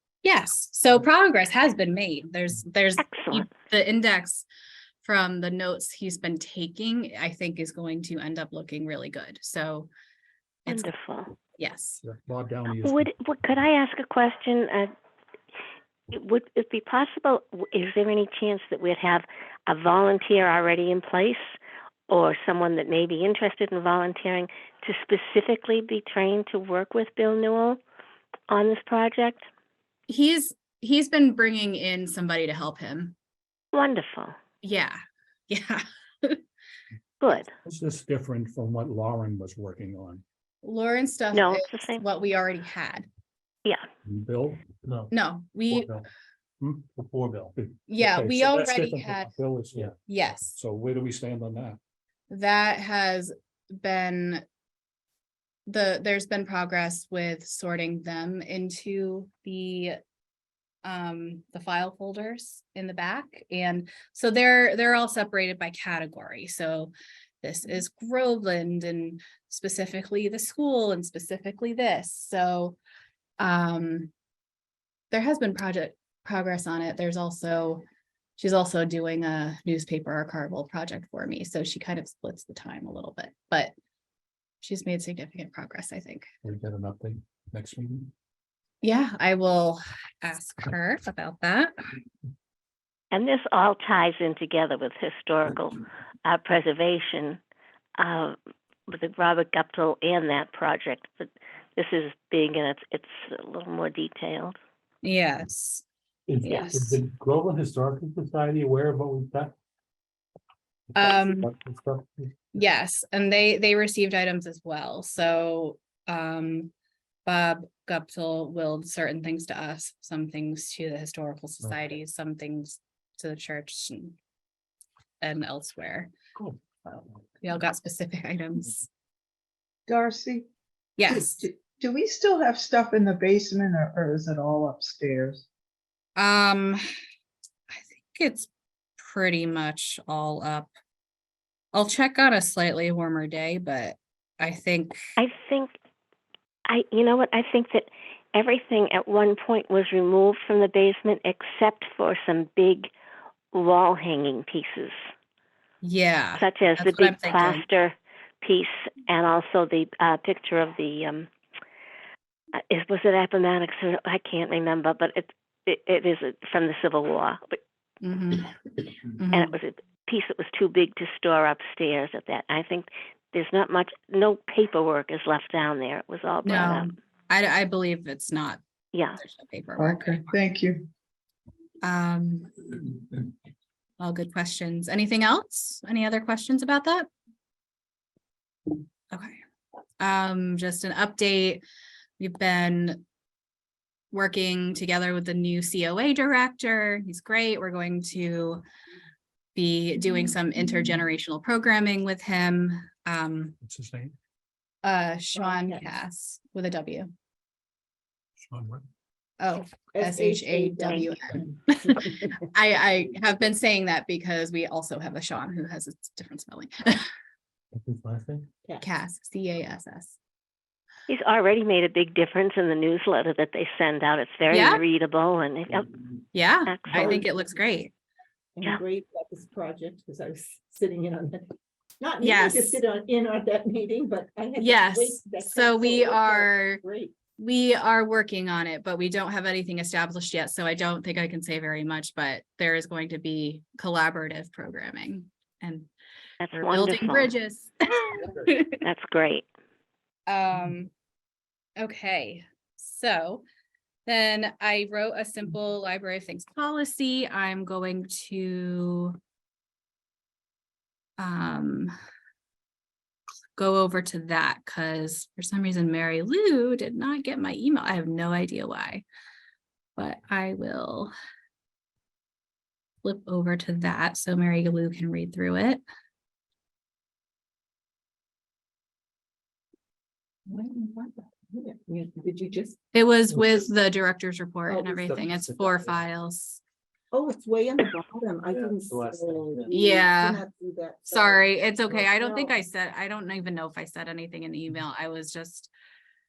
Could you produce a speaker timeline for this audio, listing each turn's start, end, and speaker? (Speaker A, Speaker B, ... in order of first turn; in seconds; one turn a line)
Speaker A: 0.2-4.5
Speaker B: 3.0-3.5
Speaker A: 5.0-9.9
Speaker A: 10.7-10.9
Speaker B: 10.7-11.3
Speaker A: 11.6-12.0
Speaker C: 12.0-13.1
Speaker B: 12.7-14.9
Speaker B: 16.1-21.4
Speaker B: 22.1-27.8
Speaker B: 28.5-29.5
Speaker A: 30.1-33.1
Speaker B: 33.7-34.4
Speaker A: 34.6-35.0
Speaker A: 35.5-36.4
Speaker B: 37.2-37.5
Speaker C: 37.6-40.2
Speaker A: 40.6-43.1
Speaker B: 41.3-42.0
Speaker C: 44.1-44.8
Speaker A: 45.1-45.9
Speaker C: 46.6-46.9
Speaker D: 47.0-47.3
Speaker C: 47.5-49.9
Speaker A: 47.9-49.3
Speaker A: 50.1-50.6
Speaker C: 50.5-51.8
Speaker A: 52.3-54.4
Speaker A: 55.7-60.0
Speaker A: 60.8-72.8
Speaker A: 73.4-74.1
Speaker A: 75.1-77.8
Speaker A: 78.4-83.7
Speaker A: 84.6-86.3
Speaker C: 86.4-88.1
Speaker A: 88.8-91.7
Speaker B: 93.1-97.4
Speaker B: 98.0-98.4
Speaker B: 98.9-104.6
Speaker A: 105.0-105.8
Speaker A: 106.4-107.0
Speaker B: 106.5-106.8
Speaker D: 108.1-108.7
Speaker A: 111.0-111.5
Speaker D: 111.9-112.3
Speaker A: 112.5-116.7
Speaker A: 117.3-124.2
Speaker A: 125.2-126.1
Speaker A: 126.8-128.9
Speaker E: 129.9-130.5
Speaker A: 131.0-131.4
Speaker E: 131.1-135.5
Speaker A: 136.2-136.8
Speaker A: 137.7-140.7
Speaker A: 141.7-145.0
Speaker B: 145.2-145.7
Speaker B: 146.7-152.9
Speaker B: 153.5-154.9
Speaker A: 155.8-157.7
Speaker B: 156.3-161.3
Speaker B: 162.7-167.6
Speaker A: 168.0-168.5
Speaker A: 169.1-169.5
Speaker B: 169.3-176.9
Speaker A: 176.4-178.6
Speaker B: 178.9-179.2
Speaker A: 179.2-180.2
Speaker E: 179.8-180.9
Speaker A: 181.8-182.6
Speaker A: 184.0-187.1
Speaker A: 189.1-189.4
Speaker A: 190.0-191.6
Speaker A: 192.2-193.0
Speaker A: 194.1-198.6
Speaker A: 199.6-203.6
Speaker C: 203.6-204.2
Speaker A: 204.8-207.1
Speaker F: 205.4-205.9
Speaker C: 208.4-208.8
Speaker A: 209.4-217.1
Speaker F: 209.9-212.4
Speaker A: 218.8-220.2
Speaker B: 221.1-226.0
Speaker A: 224.5-224.8
Speaker A: 226.3-227.9
Speaker B: 226.7-227.2
Speaker F: 226.9-227.3
Speaker F: 228.6-237.2
Speaker A: 232.2-232.8
Speaker A: 234.6-236.8
Speaker A: 237.4-245.9
Speaker B: 246.4-247.3
Speaker A: 246.5-248.8
Speaker B: 248.8-249.5
Speaker A: 250.3-250.9
Speaker A: 251.8-253.4
Speaker A: 254.1-259.2
Speaker A: 261.2-261.9
Speaker A: 263.6-269.0
Speaker A: 270.0-271.1
Speaker A: 273.0-275.8
Speaker F: 280.5-282.8
Speaker A: 282.9-286.6
Speaker F: 284.7-285.2
Speaker F: 287.1-292.6
Speaker D: 288.9-289.6
Speaker A: 289.7-290.4
Speaker A: 291.1-295.7